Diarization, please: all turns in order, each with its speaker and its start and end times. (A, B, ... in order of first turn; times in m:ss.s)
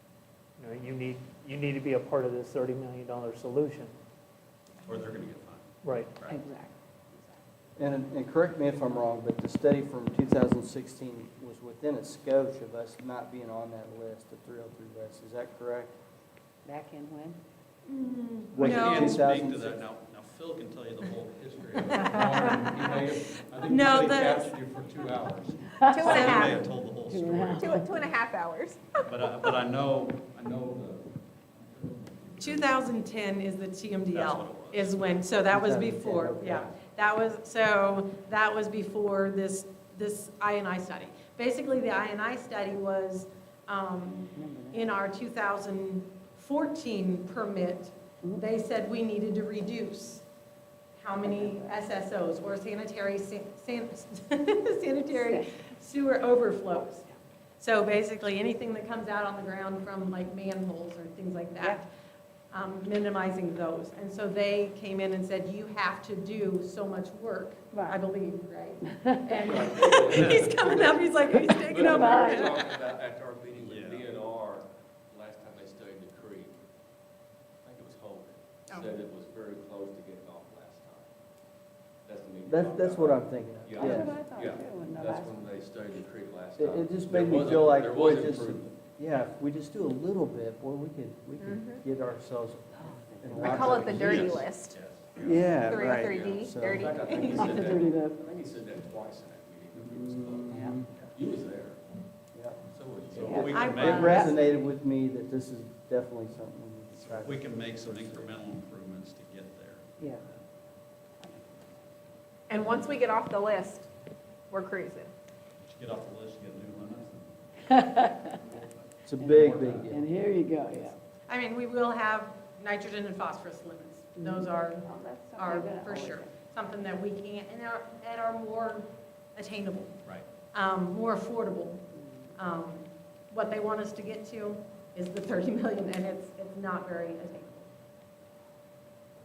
0:00.6-0:03.9 A
0:04.9-0:05.7 B
0:05.8-0:06.1 A
0:06.2-0:06.4 B
0:06.2-0:07.3 C
0:07.8-0:16.0 D
0:16.6-0:17.4 C
0:17.9-0:19.2 E
0:18.5-0:19.8 D
0:18.6-0:28.0 B
0:21.8-0:23.1 E
0:23.6-0:24.6 E
0:25.8-0:26.7 F
0:26.0-0:26.6 E
0:27.1-0:27.9 C
0:27.5-0:29.2 F
0:29.0-0:32.8 B
0:32.4-0:50.2 E
0:34.1-0:35.0 B
0:35.5-0:36.7 D
0:44.4-0:45.0 C
0:51.0-0:57.1 E
0:51.2-0:51.8 C
0:55.1-0:55.4 C
0:57.6-1:01.9 E
1:02.5-1:12.7 E
1:07.7-1:08.0 C
1:08.9-1:10.2 C
1:09.4-1:16.6 G
1:11.2-1:12.6 C
1:13.6-1:14.1 B
1:17.6-1:21.1 G
1:22.1-1:28.8 G
1:22.5-1:24.2 D
1:23.8-1:25.5 C
1:26.6-1:34.4 D
1:31.4-1:31.8 F
1:32.8-1:33.8 C
1:33.5-1:34.8 F
1:33.8-1:35.1 G
1:35.2-1:35.5 B
1:35.2-1:36.9 D
1:35.5-1:37.5 F
1:35.8-1:41.9 G
1:37.3-1:38.2 C
1:39.8-1:40.9 D
1:42.3-1:48.3 D
1:42.7-1:43.5 G
1:43.1-1:44.4 C
1:43.2-1:44.4 B
1:43.4-1:44.3 E
1:46.9-1:50.3 B
1:52.5-1:53.9 F
1:54.5-1:55.1 F
1:55.6-1:57.8 B
1:57.7-1:58.4 C
1:58.5-1:59.8 B
1:59.1-2:00.1 D
1:59.2-2:01.0 C
2:01.3-2:10.0 E
2:04.2-2:06.3 C
2:10.5-2:11.8 E
2:12.4-2:17.7 E